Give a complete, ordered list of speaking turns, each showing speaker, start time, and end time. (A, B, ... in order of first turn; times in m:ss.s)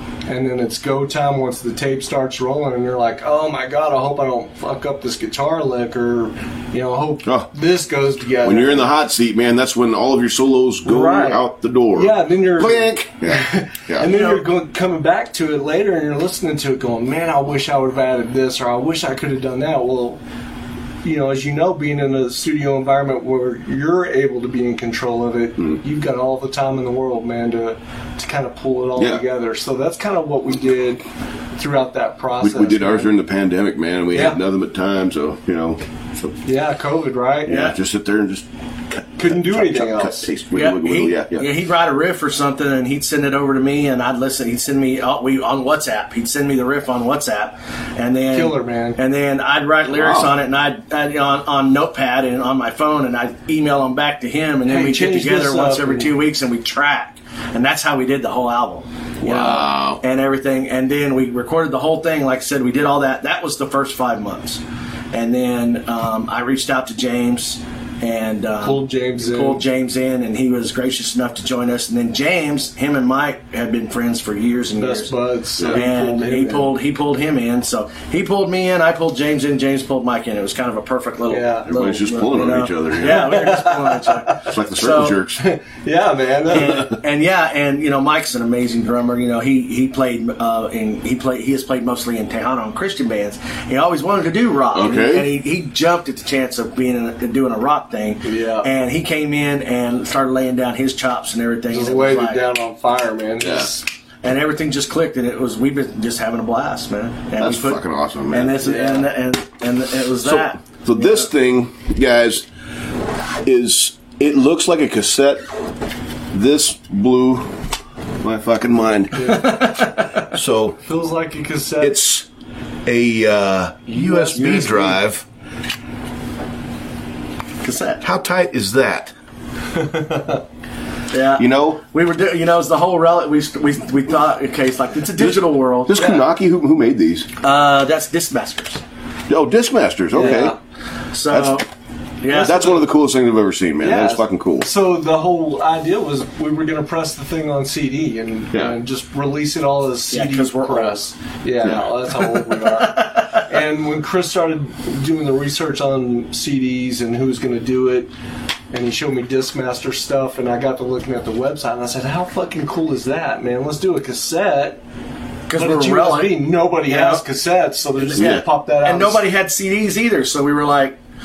0:00.3-0:08.9 A
0:08.4-0:14.1 B
0:10.8-0:20.2 A
0:14.0-0:14.4 C
0:21.0-0:31.0 A
0:29.0-0:29.2 B
0:31.6-0:33.1 A
0:32.4-0:36.4 B
0:34.1-0:34.4 A
0:36.4-0:37.6 A
0:37.5-0:41.5 B
0:37.5-0:37.8 C
0:39.2-0:40.3 A
0:40.5-1:04.6 C
0:48.3-0:49.0 A
0:49.9-0:50.3 B
0:54.7-0:56.1 A
0:59.2-1:00.0 B
1:05.1-1:25.2 C
1:08.6-1:09.6 A
1:14.8-1:16.7 A
1:21.3-1:21.7 A
1:21.7-1:23.4 B
1:23.0-1:24.5 A
1:24.4-1:25.4 B
1:25.4-1:26.9 A
1:26.5-1:42.4 C
1:34.7-1:35.3 B
1:38.2-1:38.7 A
1:41.7-1:43.8 A
1:43.4-1:43.7 B
1:44.2-1:51.2 C
1:47.4-1:48.6 B
1:48.6-1:49.1 A
1:50.2-1:52.5 B
1:53.4-1:55.4 B
1:56.3-1:57.6 B
1:58.2-1:59.5 B
1:59.2-1:59.9 A
2:00.3-2:00.8 B
2:00.8-2:02.0 A
2:01.8-2:02.3 B
2:02.8-2:05.2 B
2:03.9-2:05.0 A
2:07.6-2:08.0 C
2:08.0-2:09.1 B
2:09.7-2:10.4 A
2:11.1-2:16.1 C
2:11.4-2:11.8 B
2:15.2-2:17.3 B
2:17.4-2:18.8 C
2:19.3-2:20.6 B
2:20.1-2:20.6 A
2:21.1-2:21.7 C
2:21.3-2:21.6 B
2:22.2-2:22.8 C
2:22.3-2:22.6 A
2:22.3-2:24.7 B
2:23.8-2:38.1 A
2:30.1-2:31.0 C
2:31.6-2:31.9 B
2:32.6-2:33.4 C
2:38.7-2:44.8 A
2:45.5-2:47.2 C
2:45.6-2:49.2 A
2:48.0-2:51.0 C
2:48.2-2:48.4 B